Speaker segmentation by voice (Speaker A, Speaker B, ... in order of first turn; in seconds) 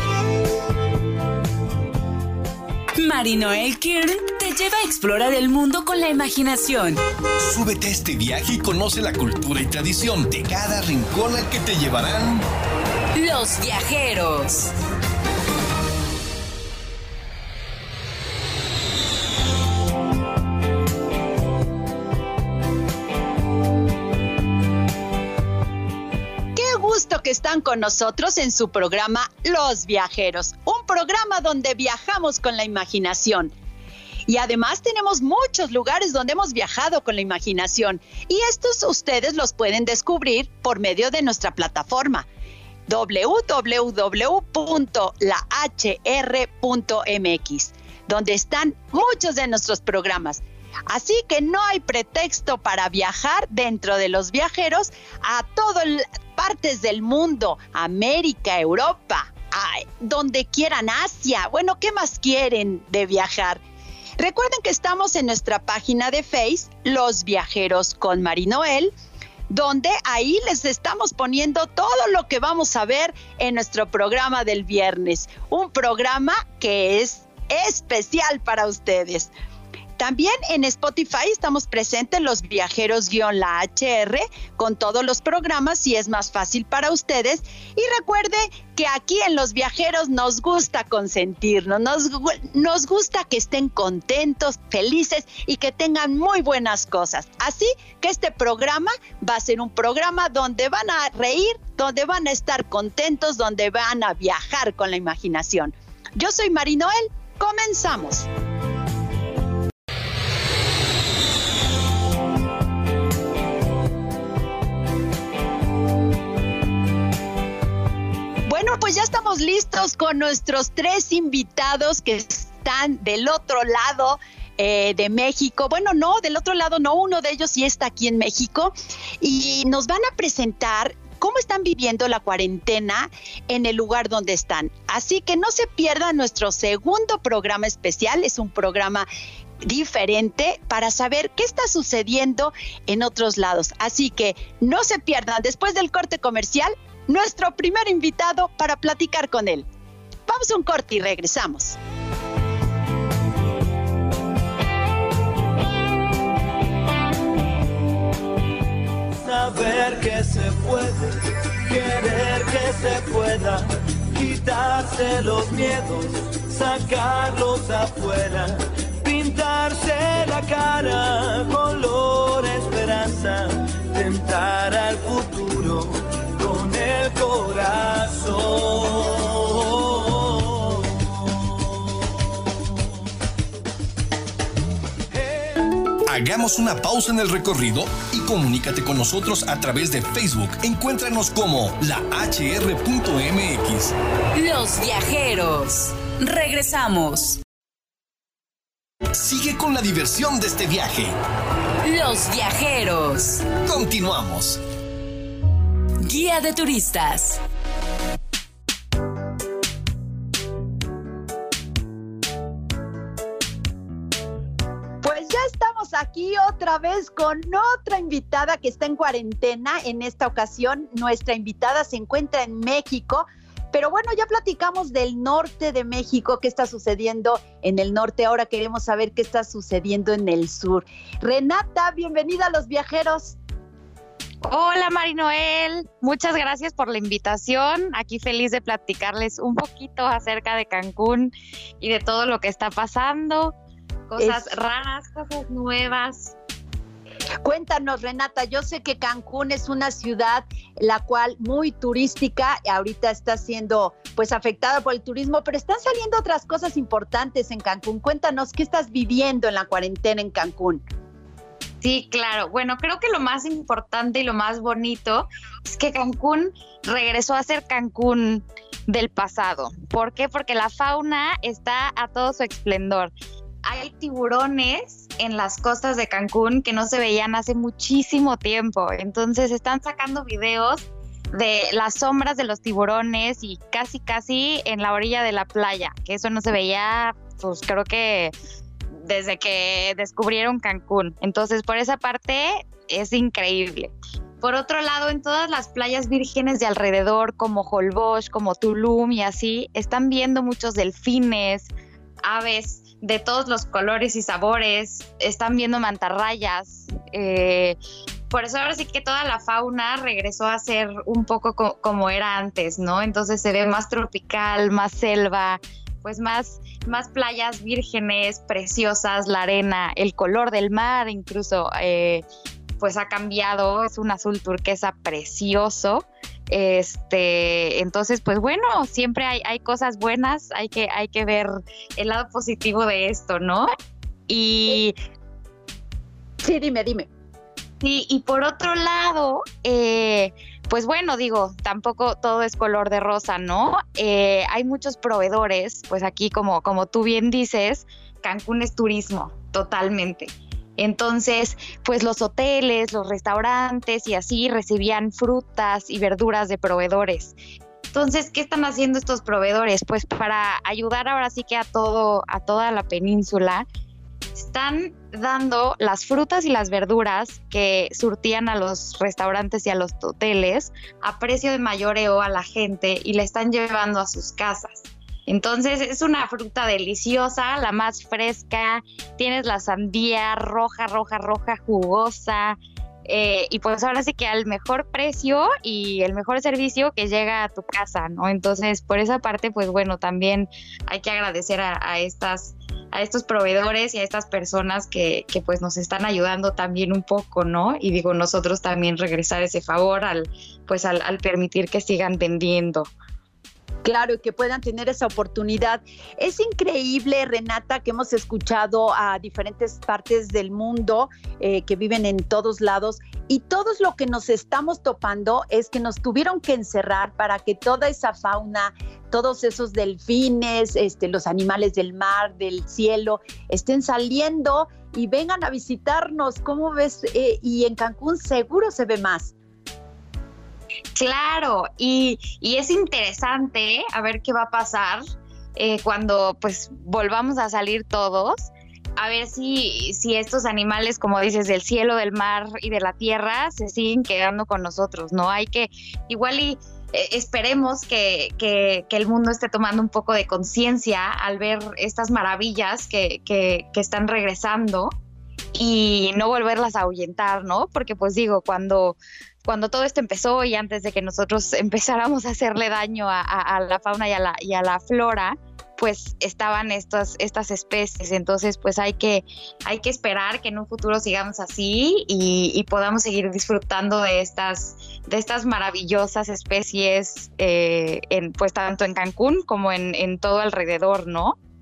Speaker A: 3.0-7.0, 13.2-14.7, 194.3-197.4, 201.8-203.5, 206.0-207.4
Speaker B: 7.4-12.5, 186.1-193.9, 199.1-201.2, 203.6-204.6
Speaker C: 26.6-33.5, 34.3-42.3, 42.9-63.6, 64.2-68.9, 69.5-79.3, 80.0-108.3, 118.5-139.1, 139.6-149.7, 150.3-151.8, 215.0-233.3, 244.2-244.5, 247.4-260.8, 336.4-337.1, 403.8-429.3
Speaker D: 159.2-181.5, 185.3-185.6
Speaker E: 234.4-243.5, 244.1-246.3, 261.8-273.1, 273.6-288.3, 288.9-301.7, 302.2-307.8, 308.3-322.2, 322.8-333.7, 334.3-334.9, 337.8-357.4, 357.9-363.6, 364.3-402.9, 430.9-435.0, 435.6-454.9, 455.5-481.4